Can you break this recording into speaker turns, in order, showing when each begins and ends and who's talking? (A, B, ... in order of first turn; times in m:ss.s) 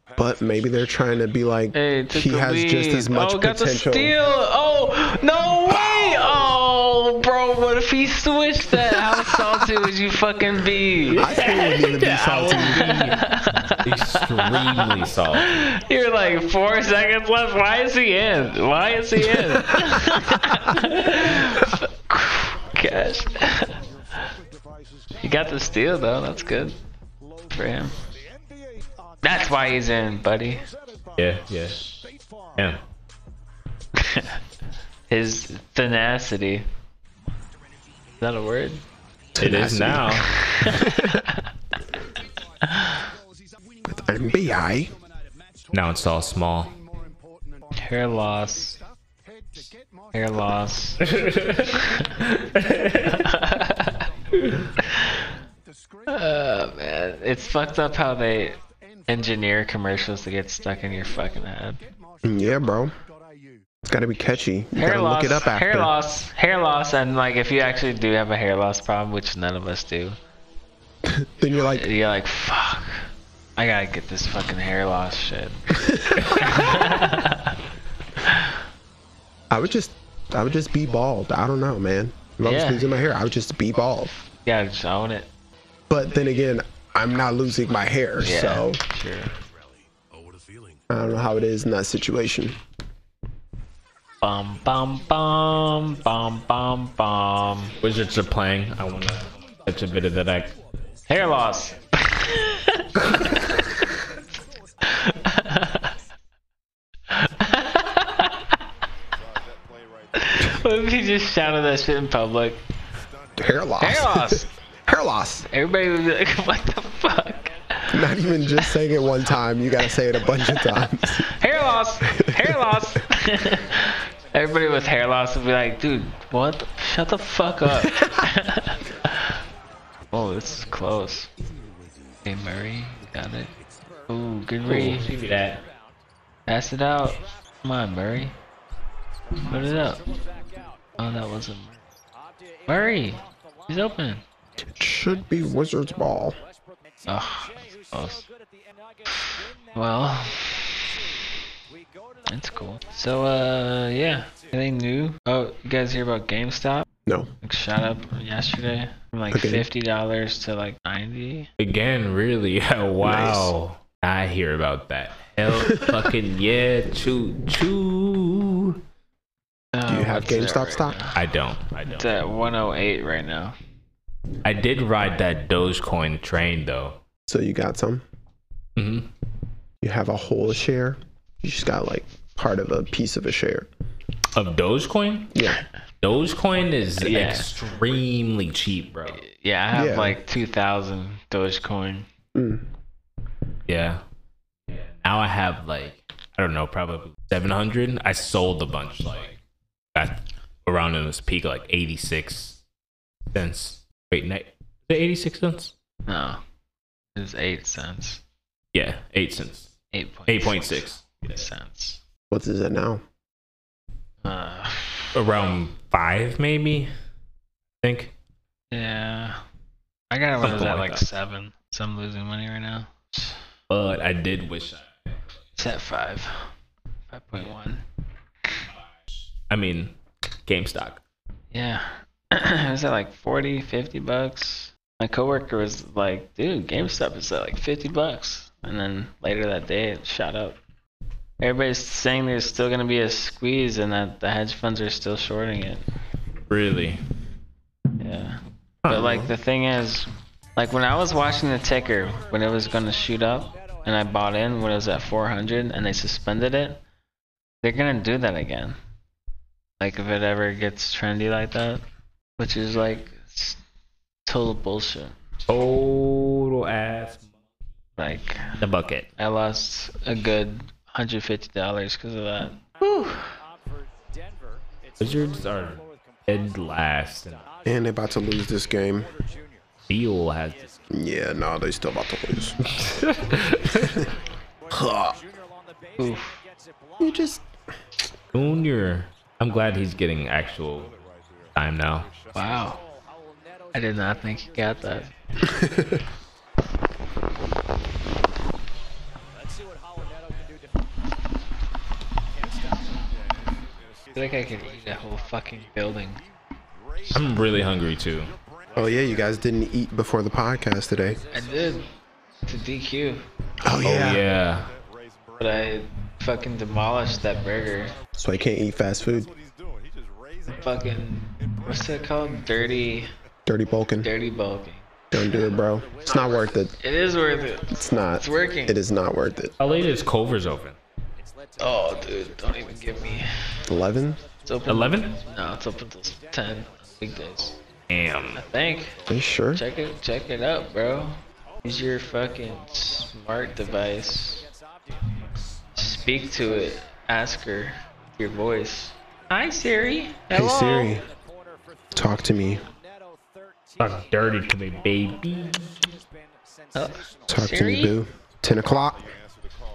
0:00.2-0:04.1 A
0:01.7-0:11.3 B
0:05.7-0:06.1 A
0:11.1-0:13.2 C
0:11.2-0:12.9 A
0:12.3-0:23.8 B
0:13.8-0:15.5 C
0:25.2-0:26.8 B
0:27.5-0:28.0 B
0:29.2-0:30.6 B
0:31.2-0:32.0 C
0:34.0-0:34.3 B
0:35.1-0:36.7 B
0:38.2-0:38.8 B
0:39.3-0:41.2 A
0:39.4-0:40.3 C
0:40.2-0:41.4 B
0:42.6-0:43.0 B
0:43.8-0:44.9 A
0:45.7-0:46.7 C
0:47.8-0:48.8 B
0:50.1-0:51.1 B
0:51.0-0:53.2 C
0:51.7-0:52.1 B
0:53.0-0:54.1 B
0:54.4-0:54.7 C
0:54.8-0:55.2 B
0:56.1-1:01.8 B
1:02.2-1:02.9 A
1:03.8-1:05.9 A
1:04.7-1:10.2 B
1:11.0-1:11.9 A
1:11.7-1:17.6 B
1:15.8-1:16.3 A
1:16.2-1:16.8 C
1:18.2-1:18.6 B
1:19.5-1:24.1 A
1:22.4-1:22.9 B
1:24.4-1:25.3 B
1:25.9-1:28.8 A
1:28.2-1:29.4 B
1:30.9-1:32.6 A
1:34.2-1:37.8 B
1:37.8-1:40.5 C
1:41.1-1:43.4 B
1:44.8-1:45.9 B
1:47.1-1:48.5 B
1:50.1-1:52.6 B
1:53.4-1:55.5 A
1:53.8-1:54.5 B
1:55.5-1:58.1 B
1:57.9-2:01.3 A
2:00.6-2:09.3 B
2:02.1-2:02.5 A
2:10.1-2:11.3 B
2:12.2-2:13.5 B
2:14.1-2:15.1 B
2:14.6-2:15.6 C
2:16.5-2:18.4 B
2:19.4-2:20.0 B
2:21.0-2:21.8 B
2:22.7-2:24.2 B
2:24.6-2:26.4 A
2:27.0-2:28.3 B
2:29.1-2:31.1 B
2:32.3-2:36.8 B
2:37.4-2:41.5 B
2:39.3-2:39.7 A
2:41.6-2:48.8 C
2:43.0-2:43.5 A
2:45.5-2:46.1 A
2:49.7-2:51.2 B
2:49.8-2:51.0 A
2:51.1-2:52.1 C
2:51.8-2:53.5 B
2:54.4-2:57.0 C
2:57.3-2:58.0 A
2:58.8-2:59.1 C
2:59.8-3:03.7 A
3:04.3-3:05.4 C
3:05.3-3:05.6 A
3:06.0-3:09.2 C
3:07.0-3:07.5 B
3:09.2-3:12.1 B
3:09.7-3:10.2 A
3:12.3-3:12.7 A
3:13.7-3:14.0 C
3:14.7-3:19.4 C
3:19.9-3:22.6 C
3:23.3-3:25.7 C
3:26.1-3:26.4 B
3:27.1-3:28.2 B
3:28.7-3:29.7 C
3:29.9-3:32.0 B
3:30.3-3:31.2 C
3:32.3-3:33.0 A
3:34.2-3:35.1 B
3:35.1-3:36.9 C
3:37.8-3:38.1 C
3:38.7-3:39.4 B
3:40.1-3:43.4 B
3:40.4-3:41.0 C
3:43.7-3:45.0 C
3:45.6-3:46.5 B
3:47.1-3:47.8 B
3:49.5-3:51.0 C
3:51.5-4:00.6 B
4:01.4-4:05.8 B
4:06.5-4:07.0 C
4:08.0-4:16.8 B
4:08.8-4:09.3 C
4:09.0-4:09.3 A
4:17.6-4:18.8 B
4:19.8-4:21.8 B
4:22.4-4:23.6 B
4:24.2-4:25.2 B
4:25.5-4:27.3 C
4:28.0-4:28.6 B
4:28.6-4:29.1 C
4:29.2-4:33.3 B
4:35.0-4:37.4 C
4:37.6-4:39.1 A
4:39.9-4:40.7 C
4:40.9-4:42.9 A
4:42.8-4:44.0 C
4:44.7-4:45.2 A
4:46.0-4:46.4 B
4:47.0-4:47.4 A
4:48.3-4:50.9 C
4:51.5-4:52.1 C
4:52.3-4:52.8 B
4:53.7-4:55.1 B
4:55.5-4:56.0 A
5:04.1-5:06.2 B
5:07.1-5:08.3 C
5:08.7-5:11.2 A
5:11.3-5:11.9 B
5:12.4-5:13.2 B
5:13.6-5:14.2 A
5:13.8-5:14.7 C
5:15.4-5:18.0 B
5:18.2-5:19.3 A
5:20.5-5:23.1 B
5:23.4-5:24.1 A
5:24.0-5:24.9 B
5:25.1-5:26.7 A
5:26.8-5:28.8 B
5:27.7-5:29.5 A
5:29.6-5:30.8 C
5:31.6-5:33.6 B
5:33.6-5:34.2 A
5:34.4-5:37.6 B
5:34.7-5:35.1 C
5:37.9-5:38.4 C
5:38.3-5:39.0 B
5:39.1-5:39.6 A
5:39.5-5:44.5 B
5:45.7-5:51.0 B
5:50.3-5:51.0 A
5:51.9-5:52.6 A
5:53.8-5:55.8 C
5:56.7-5:58.0 B
5:57.3-5:59.1 A